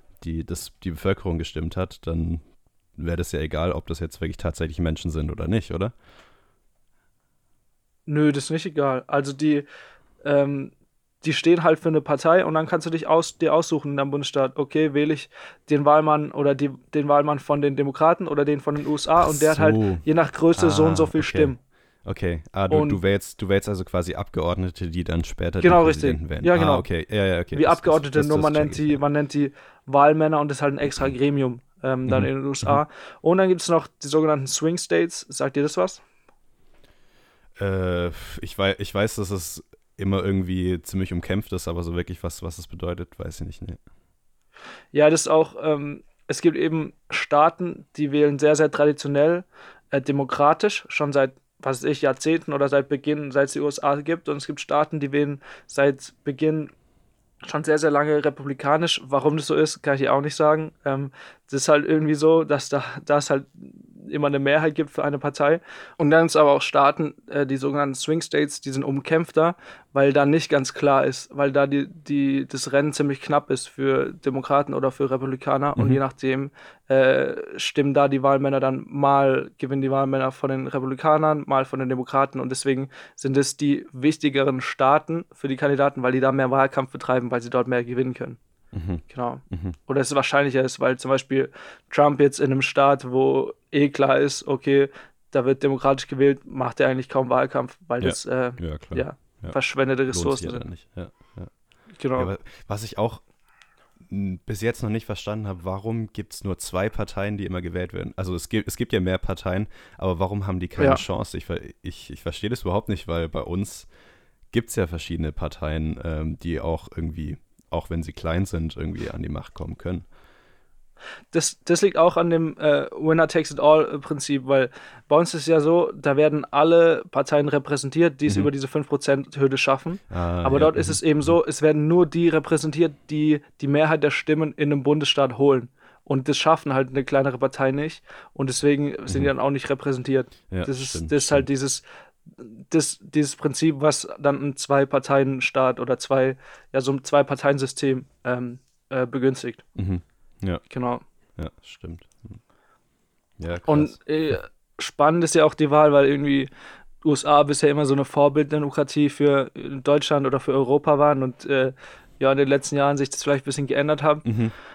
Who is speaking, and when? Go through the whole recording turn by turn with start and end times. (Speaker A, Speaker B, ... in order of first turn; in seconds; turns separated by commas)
Speaker A: 0.2-5.9, Speaker B: 8.1-9.6, Speaker B: 10.2-21.6, Speaker A: 19.2-29.0, Speaker B: 22.7-23.0, Speaker B: 25.6-26.9, Speaker B: 27.5-36.0, Speaker A: 32.0-32.8, Speaker A: 37.6-43.8, Speaker B: 44.9-56.7, Speaker B: 57.4-88.4, Speaker A: 88.7-89.8, Speaker B: 89.1-100.7, Speaker A: 98.0-101.5, Speaker B: 102.0-102.3, Speaker A: 102.1-103.2, Speaker A: 104.1-113.9, Speaker A: 114.5-120.0, Speaker B: 121.3-141.8, Speaker A: 130.1-131.3, Speaker A: 140.5-141.5, Speaker B: 142.4-149.6, Speaker A: 149.8-150.6, Speaker B: 150.7-151.0, Speaker A: 151.3-152.4, Speaker A: 153.4-153.9, Speaker B: 153.7-156.5, Speaker B: 157.0-164.2, Speaker A: 164.2-164.5